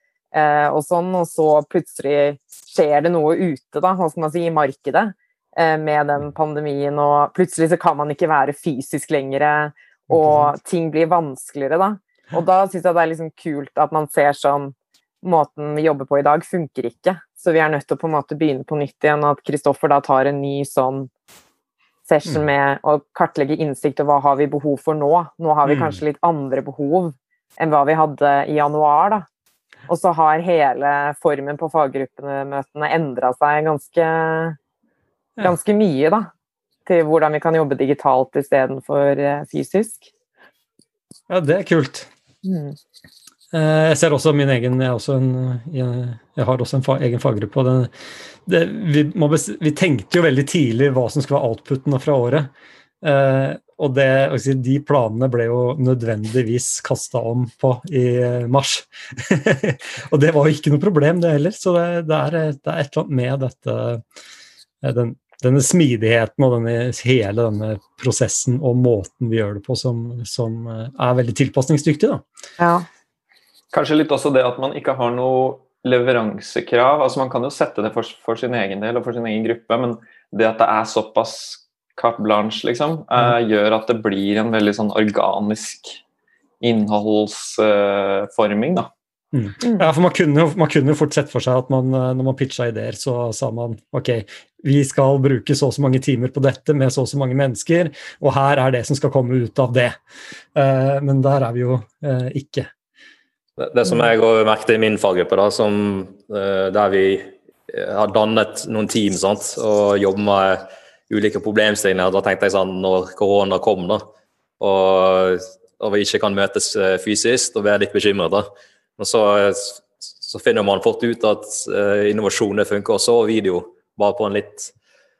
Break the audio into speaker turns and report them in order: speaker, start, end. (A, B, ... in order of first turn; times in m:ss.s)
0:00.3-0:21.1 A
0:10.1-0:10.5 B
0:22.1-0:29.3 A
0:25.7-0:26.0 B
0:29.9-0:34.6 A
0:35.4-0:36.3 A
0:36.9-0:40.1 A
0:41.3-0:42.1 B
0:42.4-0:42.8 A
0:43.5-0:47.9 B
0:48.5-0:52.5 B
0:53.0-1:04.0 B
1:04.8-1:12.2 B
1:12.6-1:12.8 A
1:13.7-1:26.0 C
1:26.6-1:28.9 C
1:29.3-1:40.0 B
1:40.6-1:42.7 B
1:43.6-1:54.0 D
1:54.6-1:58.4 D
1:59.0-2:04.7 D